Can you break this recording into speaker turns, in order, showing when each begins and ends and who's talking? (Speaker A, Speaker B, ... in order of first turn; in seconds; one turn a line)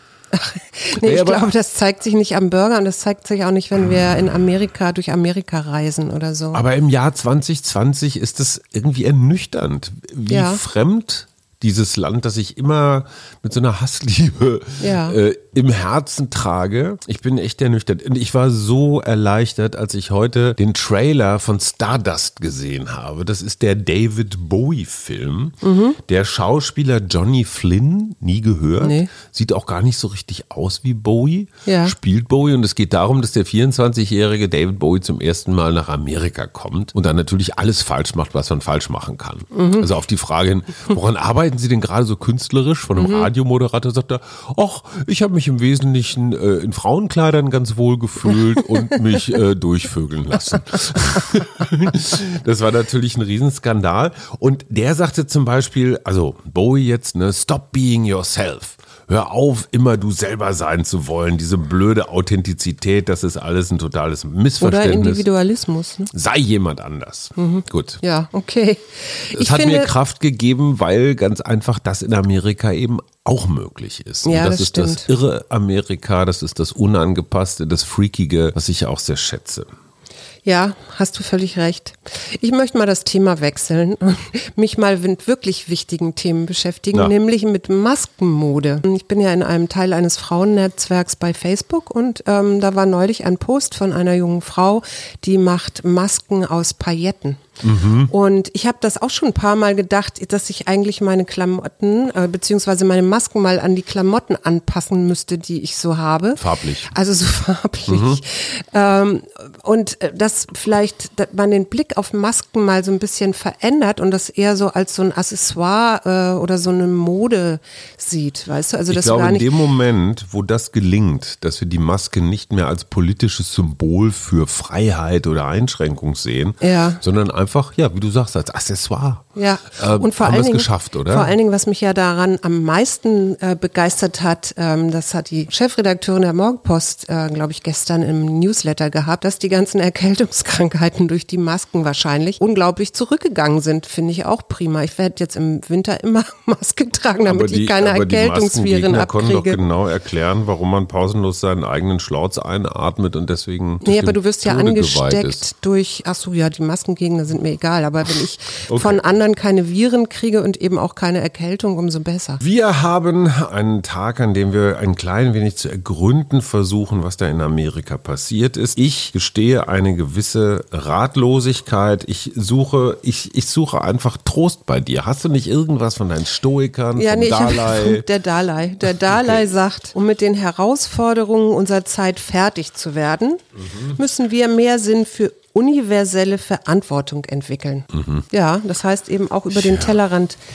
Speaker A: 0.3-6.6
Speaker B: 0.9-1.5
Speaker B: 6.5-65.2
Speaker A: 10.3-10.6
Speaker A: 14.8-15.2
Speaker A: 25.6-26.0
Speaker A: 28.8-29.1
Speaker A: 31.6-31.9
Speaker A: 39.5-39.9
Speaker A: 43.0-43.3
Speaker A: 64.6-66.1
Speaker B: 66.1-68.0
Speaker A: 67.3-69.9
Speaker B: 69.3-79.7
Speaker A: 74.2-75.0
Speaker A: 80.4-97.5
Speaker B: 97.6-98.1
Speaker A: 98.1-119.5
Speaker B: 106.3-106.9
Speaker B: 107.9-108.2
Speaker B: 118.9-129.2
Speaker A: 126.6-127.0
Speaker A: 129.3-149.6
Speaker B: 129.8-131.3
Speaker B: 147.3-155.4
Speaker A: 153.8-162.4
Speaker B: 158.7-159.0
Speaker B: 162.4-178.1
Speaker A: 176.9-190.4
Speaker B: 179.0-179.4
Speaker B: 187.9-188.2
Speaker B: 189.5-189.9